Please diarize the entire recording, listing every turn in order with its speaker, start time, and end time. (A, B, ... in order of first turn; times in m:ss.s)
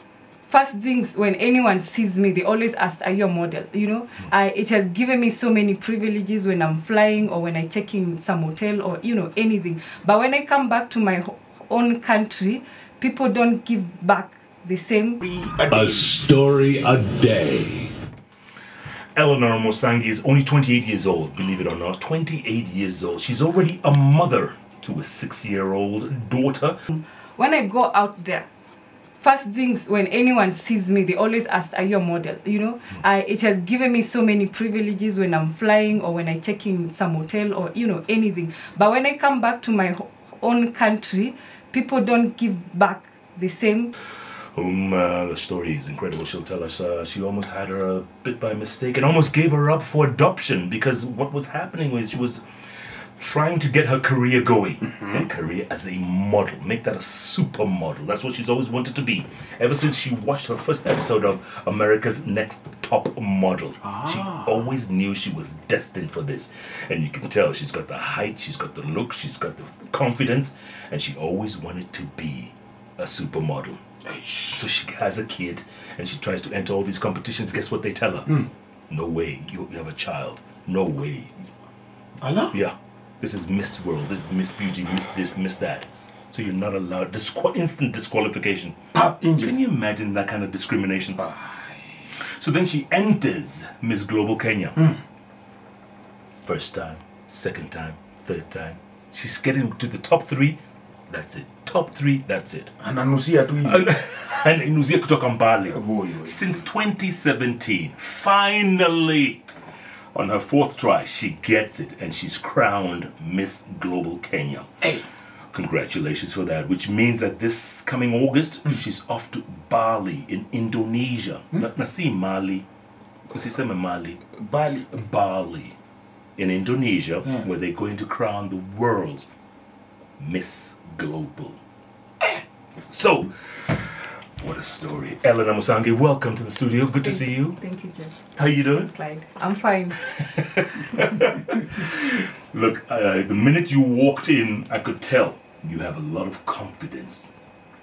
0:00.5-0:15.2 A
0:15.3-0:16.1 B
0:15.6-0:17.9 C
0:19.2-0:26.8 C
0:26.9-0:28.5 A
0:29.2-0:43.9 A
0:44.5-0:52.4 C
0:53.2-1:13.8 C
1:14.1-1:14.6 B
1:14.5-1:21.4 C
1:22.2-1:22.5 B
1:22.5-1:31.3 C
1:28.9-1:29.5 B
1:31.2-1:31.8 B
1:32.2-1:34.9 C
1:36.5-1:40.6 C
1:41.1-1:42.7 C
1:42.8-1:43.8 B
1:43.6-1:49.5 C
1:45.8-1:46.5 B
1:50.1-1:54.7 C
1:55.5-2:02.7 C
2:03.3-2:04.3 C
2:04.4-2:04.9 B
2:04.9-2:05.8 C
2:06.4-2:09.3 C
2:10.2-2:11.6 C
2:12.9-2:17.6 C
2:17.0-2:20.5 A
2:18.4-2:18.9 C
2:20.0-2:27.3 C